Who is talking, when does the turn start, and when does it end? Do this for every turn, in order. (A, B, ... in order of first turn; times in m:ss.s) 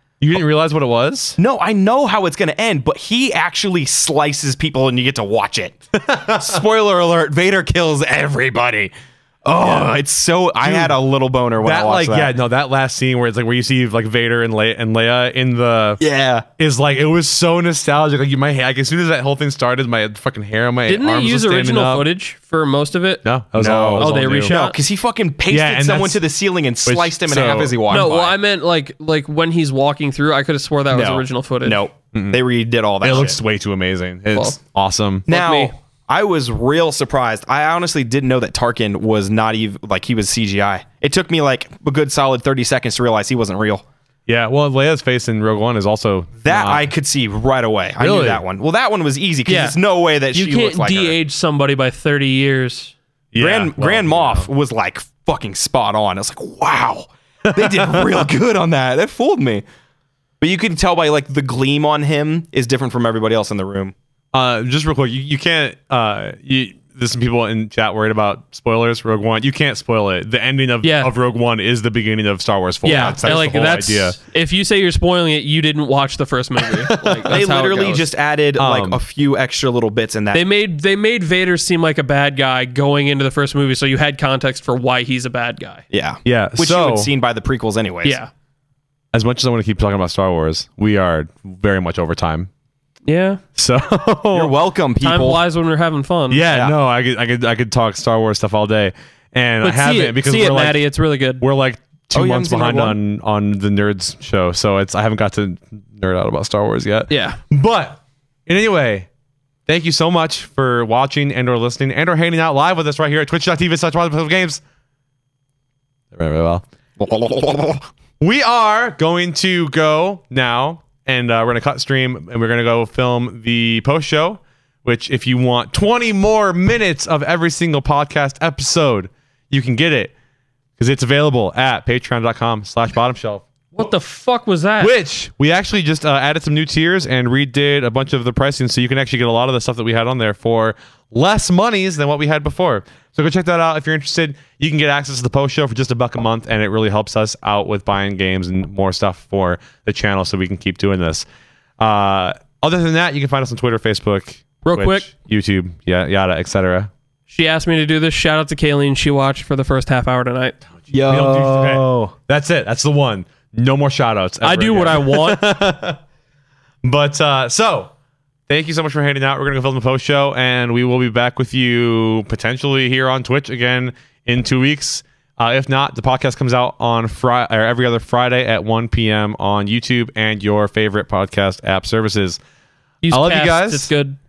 0:00.2-0:01.4 A
0:01.4-0:08.9 B
0:06.0-0:06.6 A
0:09.4-0:12.3 B
0:09.6-0:09.9 A
0:10.6-0:11.0 A
0:11.6-0:16.0 A
0:16.0-0:16.4 B
0:16.6-0:22.0 A
0:20.9-0:23.2 C
0:23.2-0:24.5 A
0:23.5-0:28.3 B
0:24.0-0:24.8 C
0:25.5-0:26.2 A
0:26.8-0:28.0 A
0:27.9-0:31.8 C
0:30.9-0:33.4 B
0:32.1-0:32.4 A
0:33.0-0:35.3 A
0:35.3-0:35.7 C
0:35.3-0:43.8 B
0:44.3-0:46.9 A
0:46.4-0:51.2 B
0:48.0-0:48.4 A
0:49.5-0:49.8 C
0:50.3-0:52.9 C
0:53.3-0:54.5 A
0:53.4-0:59.6 B
0:57.5-0:58.0 A
1:00.4-1:03.9 B
1:04.3-1:14.2 A
1:10.8-1:11.1 C
1:12.8-1:18.1 C
1:12.9-1:13.5 B
1:16.9-1:17.4 A
1:17.2-1:20.4 B
1:18.6-1:19.0 A
1:20.3-1:25.8 C
1:25.9-1:28.2 B
1:26.2-1:27.1 A
1:28.0-1:28.3 C
1:29.1-1:32.5 A
1:33.0-1:33.4 C
1:33.6-1:34.5 A
1:34.3-1:35.4 B
1:35.0-1:36.4 C
1:36.3-1:40.8 A
1:36.5-1:36.7 B
1:39.6-1:41.4 C
1:41.4-1:49.1 A
1:42.1-1:43.0 B
1:47.1-1:47.4 C
1:49.7-1:54.6 A
1:56.1-1:56.6 A
1:57.0-1:57.9 B
1:58.2-2:10.1 A
2:10.8-2:13.8 A
2:13.7-2:14.9 C
2:14.8-2:31.2 A
2:31.8-2:36.9 A
2:34.6-2:35.1 C
2:37.3-2:40.5 C
2:40.8-2:46.0 A
2:40.9-2:42.1 B
2:44.4-2:45.5 C
2:46.8-2:47.9 A
2:48.5-3:02.4 A
3:03.0-3:04.2 C
3:03.1-3:03.9 A